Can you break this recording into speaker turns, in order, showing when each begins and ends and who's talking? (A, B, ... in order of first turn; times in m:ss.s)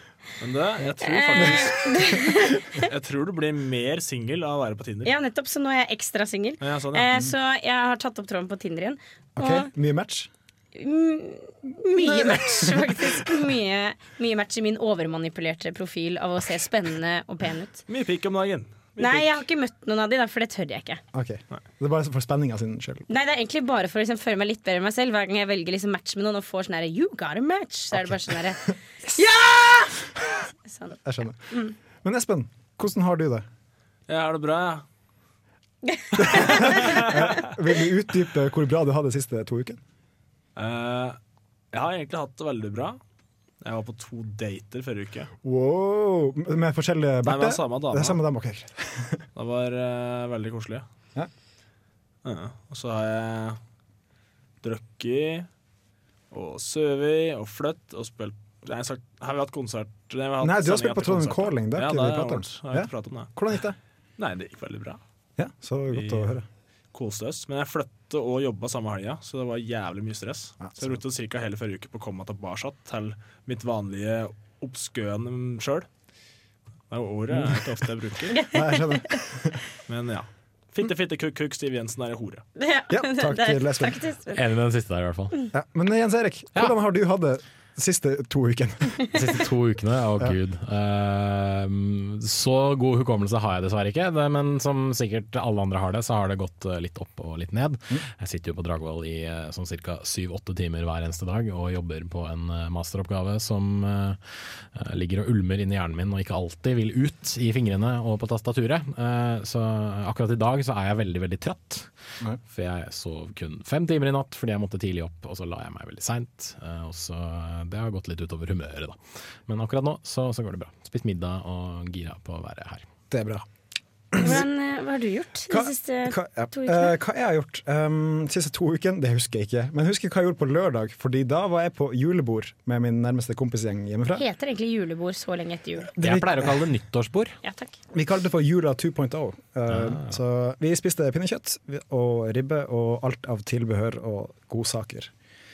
0:00.4-0:01.8 A
0:01.0-0:02.8 B
0:02.8-0:05.1 A
0:05.0-0:09.7 B
0:06.6-0:07.1 A
0:09.4-0:10.3 C
0:10.7-0:17.8 B
0:11.9-0:13.3 C
0:17.9-0:19.4 A
0:19.0-0:21.0 B
0:21.1-0:23.1 C
0:23.1-0:28.6 B
0:29.2-0:29.8 B
0:30.7-0:31.0 B
0:31.0-0:33.4 C
0:34.1-0:34.8 A
0:35.9-0:36.8 B
0:36.2-0:37.5 A
0:36.2-0:39.8 C
0:40.6-0:41.2 A
0:41.7-0:43.0 A
0:43.6-0:45.3 A
0:45.4-0:49.2 C
0:47.2-0:48.2 A
0:49.3-0:50.8 A
0:52.2-0:53.6 A
0:54.6-0:55.5 A
0:56.3-1:03.3 A
1:00.4-1:03.8 C
1:04.2-1:05.0 A
1:05.4-1:06.4 C
1:05.9-1:06.3 A
1:06.9-1:15.9 A
1:10.6-1:11.0 C
1:16.9-1:18.4 A
1:17.3-1:17.6 C
1:18.3-1:19.2 B
1:18.5-1:19.6 C
1:19.9-1:22.4 A
1:22.6-1:24.4 B
1:22.9-1:24.0 C
1:24.3-1:25.3 D
1:25.5-1:29.1 C
1:29.1-1:44.2 D
1:44.7-1:51.9 D
1:52.5-1:59.0 D
1:59.5-2:02.8 D
2:03.1-2:03.4 C
2:04.1-2:04.4 C
2:04.2-2:06.9 B
2:05.5-2:14.2 C
2:14.1-2:15.9 B
2:15.9-2:16.6 C
2:16.0-2:17.4 D
2:17.4-2:17.7 B
2:17.9-2:25.1 C
2:19.7-2:20.1 D